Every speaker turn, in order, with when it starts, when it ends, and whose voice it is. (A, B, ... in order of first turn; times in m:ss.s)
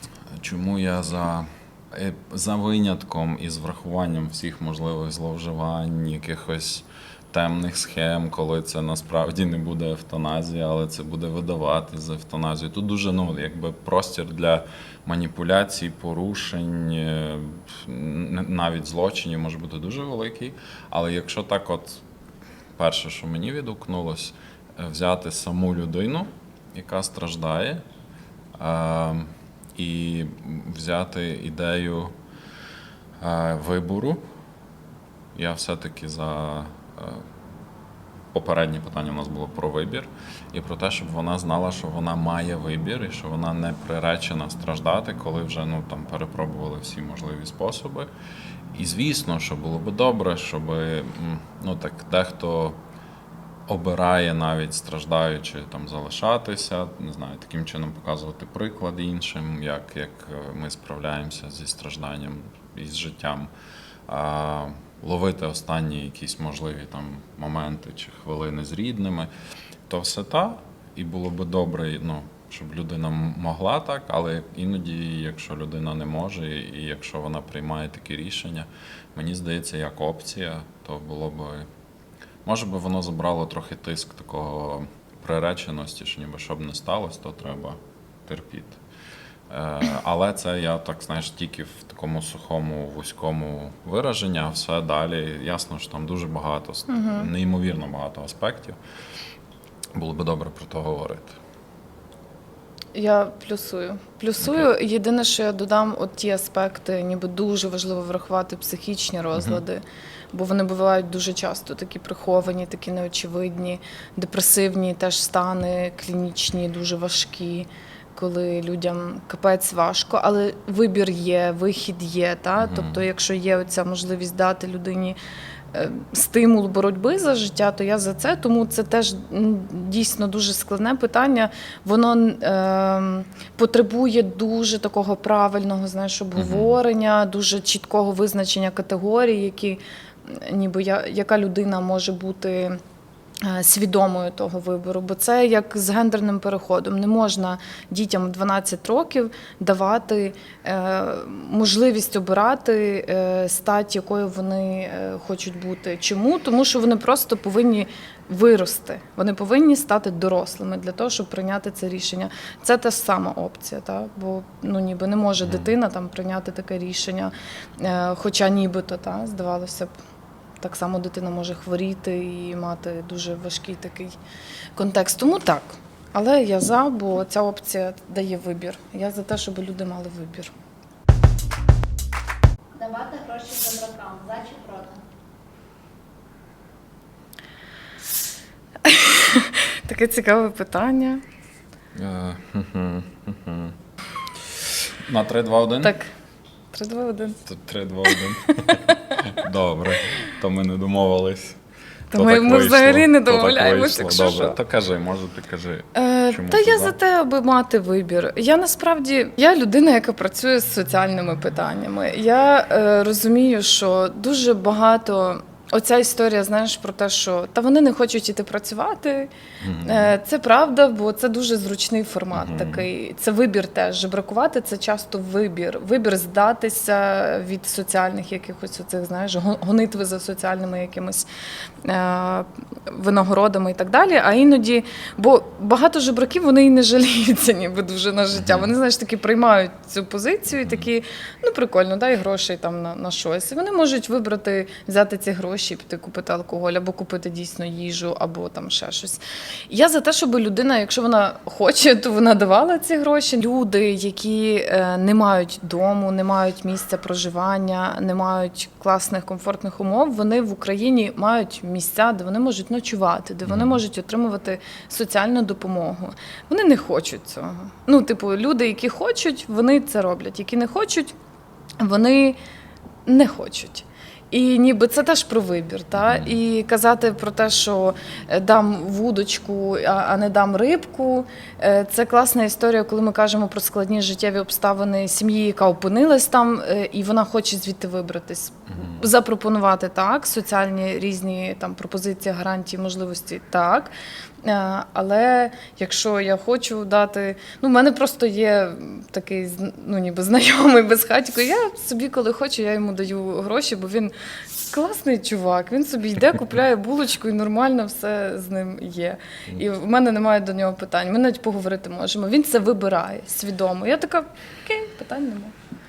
0:00.4-0:22.0 A
0:22.8-0:27.8 A
0:28.6-0:32.1 A
0:33.2-0:34.2 A
0:35.3-0:37.2 A
0:38.3-0:48.1 A
0:48.7-0:52.8 A
0:53.7-1:03.5 A
1:04.1-1:09.3 A
1:09.9-1:21.7 A
1:22.4-1:28.8 A
1:29.5-1:38.8 A
1:36.9-1:37.3 B
1:39.9-1:41.4 A
1:42.9-2:05.2 B
1:44.4-1:44.7 A
1:49.4-1:49.6 A
2:02.6-2:03.0 A
2:05.7-2:22.8 B
2:16.4-2:16.7 A
2:23.4-2:50.0 B
2:45.4-2:45.7 A
2:50.6-2:54.2 B
2:54.7-3:00.5 B
3:02.7-3:05.0 C
3:08.8-3:11.2 B
3:11.9-3:13.7 A
3:14.5-3:16.0 A
3:15.8-3:16.1 B
3:16.7-3:17.4 B
3:17.4-3:21.6 A
3:18.1-3:19.1 B
3:22.1-3:24.6 B
3:22.1-3:27.0 A
3:25.9-3:51.3 B
3:39.6-3:40.1 A
3:42.3-3:42.9 A
3:51.8-4:31.1 B
3:58.4-3:58.7 A
4:23.4-4:23.8 A
4:31.8-4:32.4 B
4:33.0-5:04.1 B
4:35.9-4:36.4 A
4:48.7-4:49.0 A
5:04.7-5:15.5 B